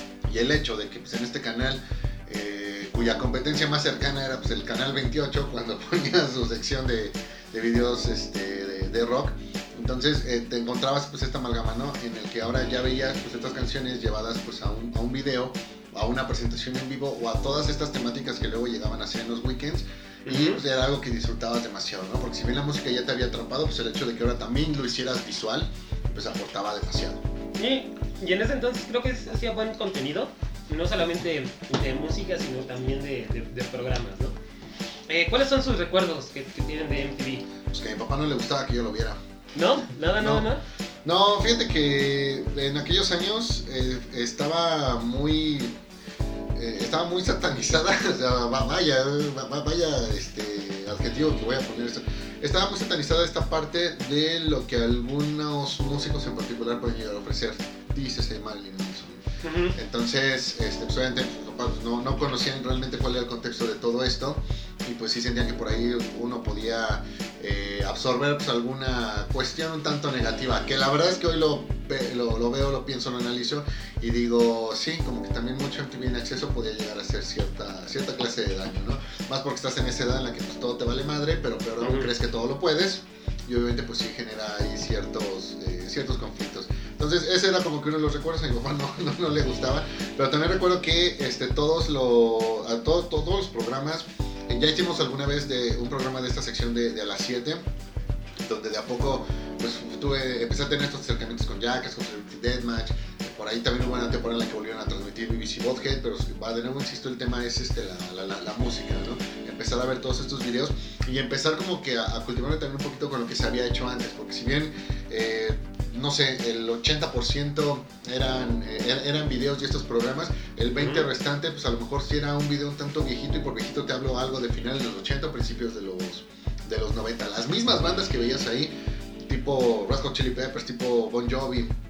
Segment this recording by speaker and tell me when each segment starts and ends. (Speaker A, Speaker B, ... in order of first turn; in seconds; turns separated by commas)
Speaker A: 0.3-27.2, Speaker B: 20.3-20.6, Speaker B: 27.6-34.4, Speaker B: 35.1-37.5, Speaker A: 37.7-39.2, Speaker B: 39.5-40.6, Speaker A: 40.2-40.5, Speaker A: 41.0-45.7, Speaker A: 46.5-97.7, Speaker B: 59.4-59.8, Speaker B: 81.8-82.1, Speaker A: 98.4-128.7, Speaker B: 120.8-121.1, Speaker A: 129.2-131.8